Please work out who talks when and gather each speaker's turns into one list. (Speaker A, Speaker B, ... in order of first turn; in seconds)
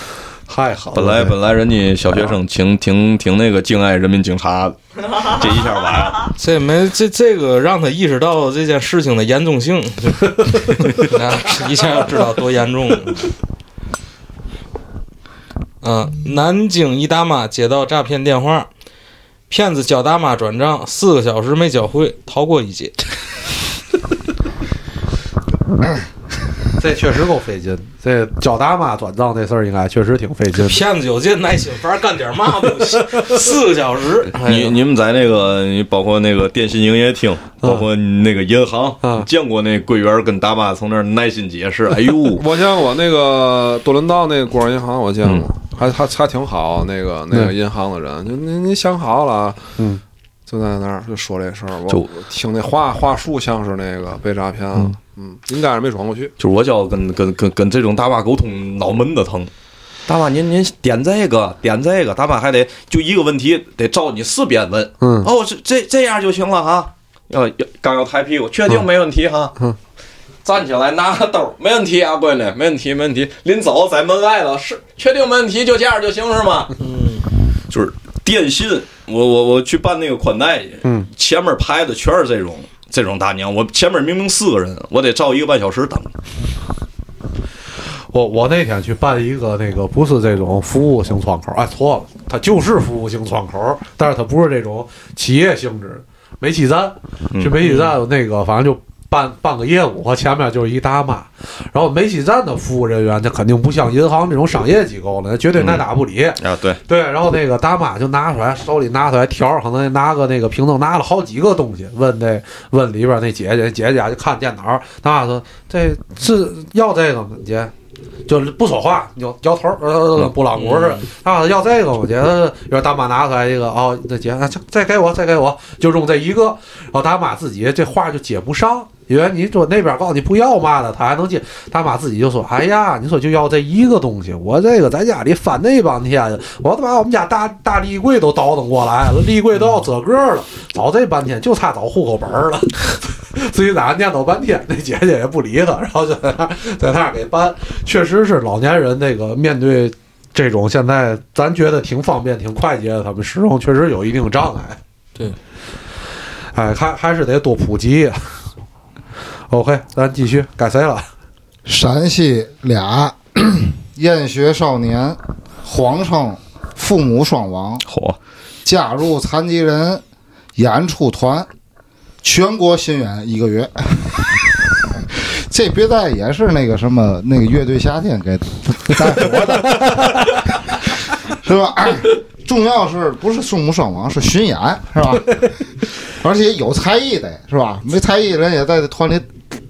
Speaker A: 0.5-1.3, 26.8-30.8, 32.9-33.3, 37.6-37.9, 39.0-39.3, 65.0-65.3, 80.8-81.1, 88.1-117.7, 118.3-154.8, 156.5-158.3, 159.5-161.1, 179.3-180.4
Speaker B: 0.9-6.3, 34.3-42.5, 56.4-59.5, 60.1-69.5, 70.4-76.7, 77.7-86.1, 97.3-97.6, 105.5-105.9, 106.4-106.8, 167.8-168.2
Speaker C: 6.4-13.3, 15.8-18.7, 19.5-23.0, 30.5-34.8, 76.8-77.3, 97.6-98.0, 120.5-121.0
Speaker D: 42.3-49.6, 50.5-56.3
Speaker E: 161.7-167.8, 168.6-170.0, 170.6-171.5, 172.2-174.4, 175.0-180.4, 181.3-185.4, 186.1-189.3